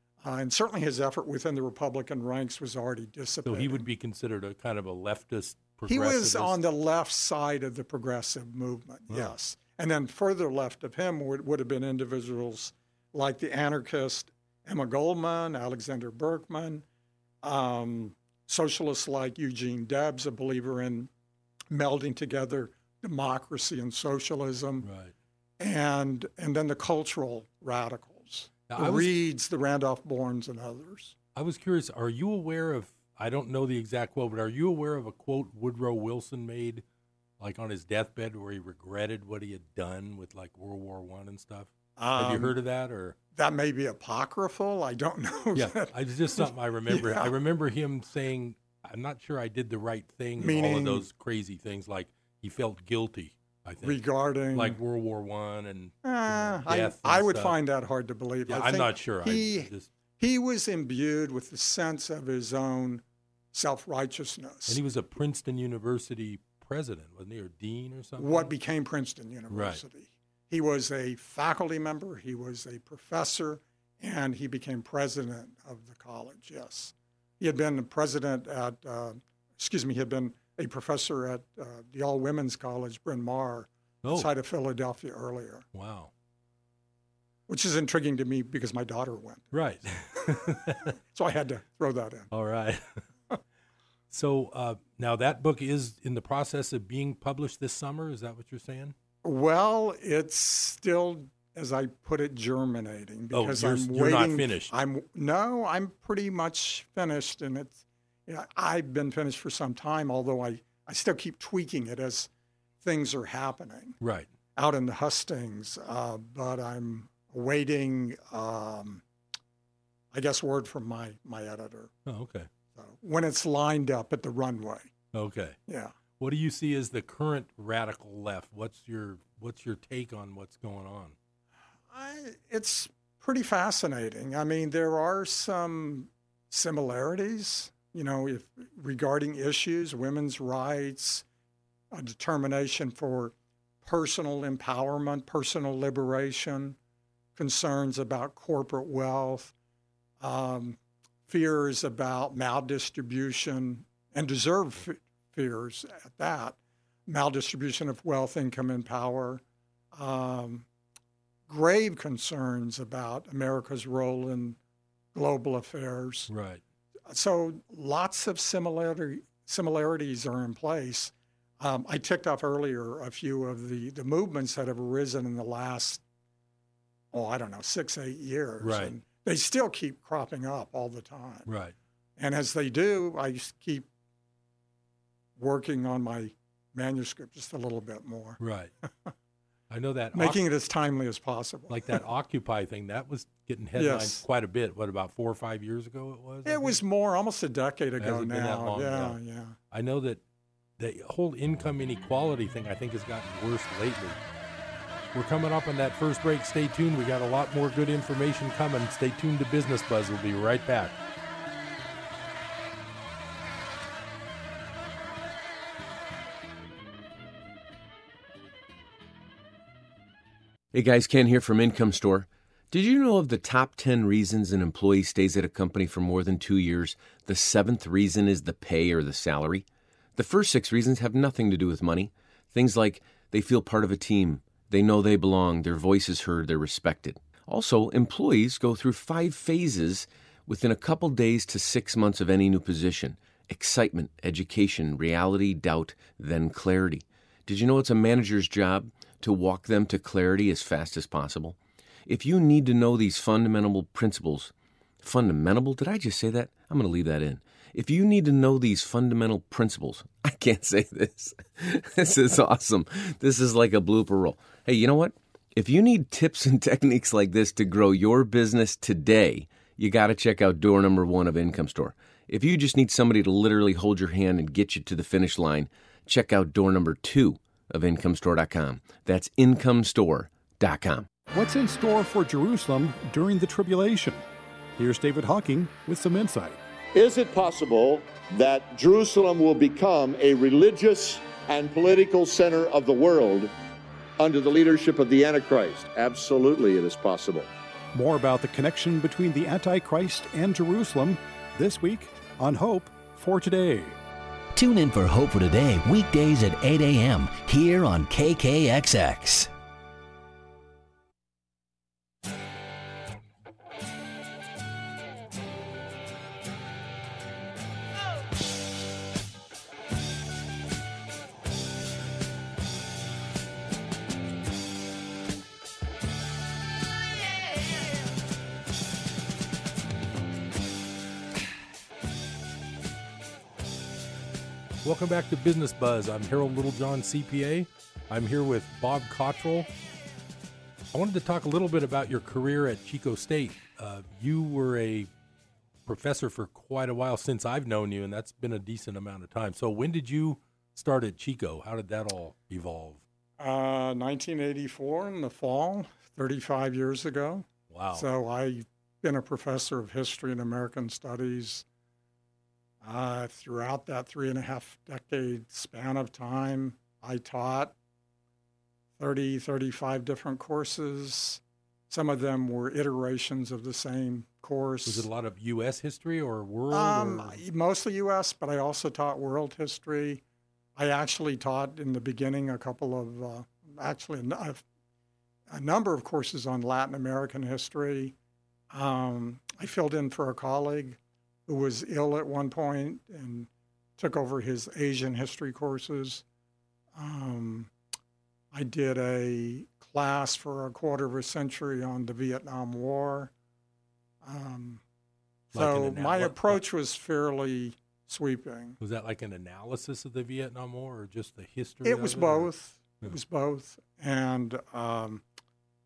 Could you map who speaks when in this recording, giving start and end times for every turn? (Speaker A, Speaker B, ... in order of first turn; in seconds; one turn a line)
Speaker A: 0.2-3.8
Speaker B: 3.5-6.6
Speaker A: 5.9-16.8
Speaker A: 17.4-21.1
Speaker A: 21.7-24.9
Speaker B: 24.8-25.1
Speaker A: 25.6-31.1
Speaker B: 28.7-29.2
Speaker B: 31.4-36.8
Speaker B: 37.4-43.2
Speaker A: 42.0-42.5
Speaker A: 43.4-47.3
Speaker B: 45.5-54.0
Speaker A: 50.4-51.0
Speaker A: 53.8-54.8
Speaker B: 54.5-57.5
Speaker A: 56.0-64.8
Speaker B: 58.5-59.9
Speaker B: 64.7-68.5
Speaker A: 68.2-85.7
Speaker B: 69.5-69.8
Speaker B: 84.0-84.3
Speaker B: 85.7-86.1
Speaker A: 87.5-89.5
Speaker B: 89.5-90.9
Speaker A: 91.1-92.3
Speaker B: 92.3-92.8
Speaker B: 94.1-99.0
Speaker A: 99.2-112.3
Speaker B: 103.3-104.7
Speaker A: 112.8-114.0
Speaker B: 114.0-114.3
Speaker A: 114.6-119.0
Speaker A: 120.1-121.9
Speaker B: 122.1-122.5
Speaker A: 122.7-124.9
Speaker B: 125.1-125.6
Speaker A: 125.7-126.0
Speaker B: 126.2-131.2
Speaker A: 131.9-141.2
Speaker A: 141.9-146.8
Speaker A: 147.4-149.5
Speaker A: 150.2-159.4
Speaker A: 159.9-160.7
Speaker A: 161.5-164.6
Speaker A: 165.1-166.3
Speaker B: 166.3-166.6
Speaker A: 167.1-176.0
Speaker A: 177.1-181.5
Speaker B: 178.6-178.9
Speaker B: 181.5-181.8
Speaker A: 182.2-183.9
Speaker A: 185.4-188.4
Speaker B: 188.4-188.7
Speaker B: 189.7-190.4
Speaker A: 190.1-192.0
Speaker B: 191.7-196.8
Speaker A: 193.8-194.2
Speaker A: 196.4-199.6
Speaker B: 198.0-199.2
Speaker B: 199.7-200.2
Speaker B: 200.8-204.2
Speaker B: 205.1-211.0
Speaker C: 220.7-229.7
Speaker C: 230.2-281.1
Speaker D: 281.3-284.2
Speaker D: 284.8-286.6
Speaker E: 286.9-293.5
Speaker E: 294.2-297.5
Speaker D: 297.9-304.0
Speaker F: 304.6-309.5
Speaker B: 334.8-339.7
Speaker B: 340.9-345.1
Speaker B: 345.9-353.0
Speaker A: 353.4-361.6
Speaker B: 357.7-358.1
Speaker A: 362.8-367.7
Speaker A: 369.0-375.1
Speaker B: 374.9-377.4
Speaker A: 376.7-380.2
Speaker A: 380.8-384.6
Speaker A: 385.5-388.1
Speaker A: 388.7-396.2
Speaker A: 396.9-397.7
Speaker A: 398.5-403.3
Speaker A: 404.2-404.8
Speaker A: 405.5-408.8
Speaker B: 405.5-406.6
Speaker B: 408.8-412.5
Speaker A: 411.8-415.2